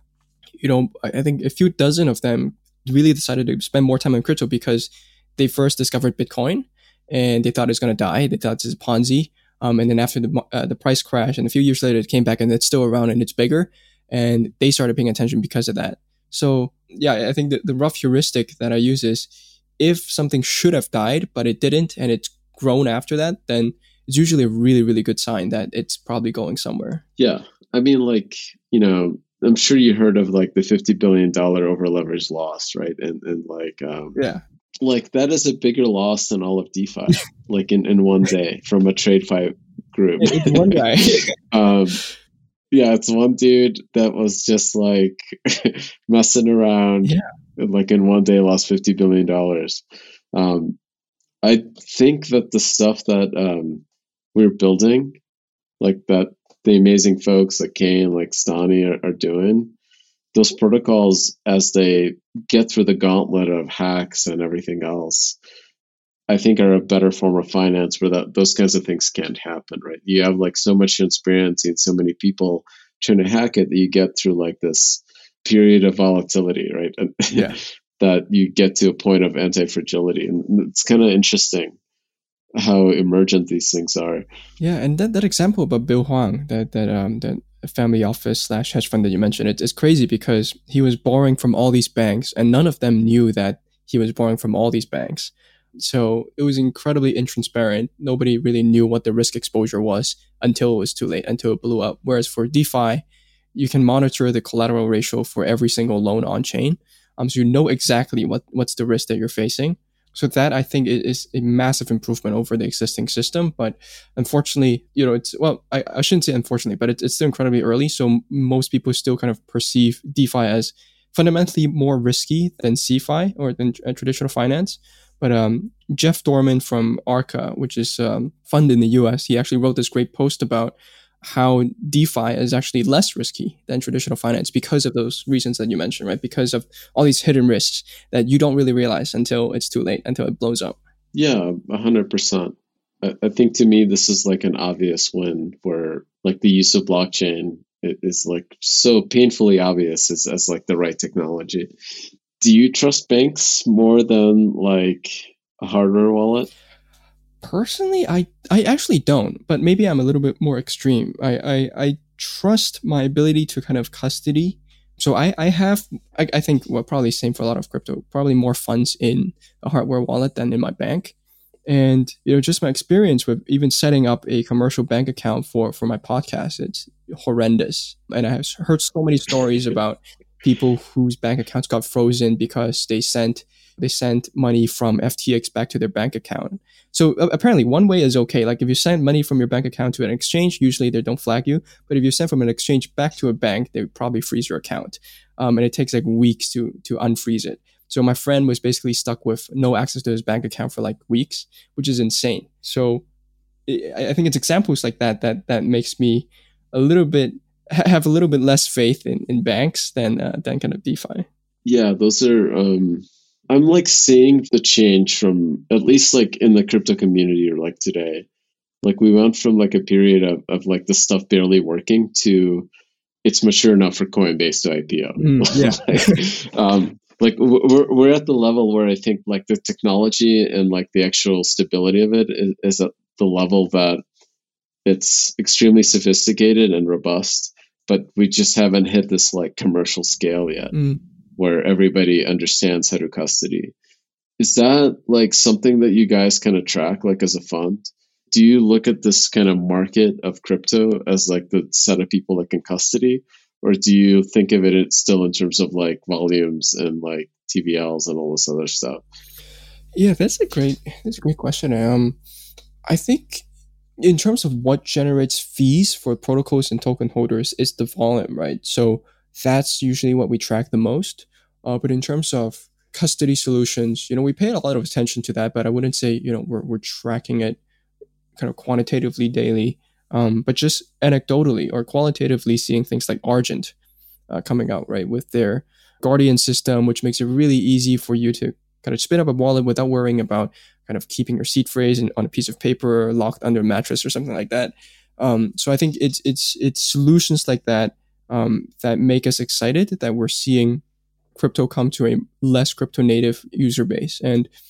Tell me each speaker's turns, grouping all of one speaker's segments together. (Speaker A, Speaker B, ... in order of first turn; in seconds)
Speaker A: 0.6-27.0, 34.2-34.4, 40.2-41.3, 77.3-77.6, 84.6-103.0, 103.5-140.8, 157.4-171.2, 171.7-203.1, 203.7-211.3, 225.2-226.2, 240.7-241.0, 260.0-262.2, 262.9-263.4, 264.0-277.6, 278.4-283.7, 284.3-300.8, 301.4-304.5
Speaker B: 27.2-34.2, 34.8-40.8, 41.4-42.0, 42.7-50.8, 51.4-55.2, 55.8-59.7, 60.3-65.4, 66.3-81.8, 82.6-84.2, 141.1-151.7, 152.4-156.5, 211.7-218.3, 218.8-222.7, 223.2-234.0, 234.8-240.7, 241.4-243.7, 244.4-259.0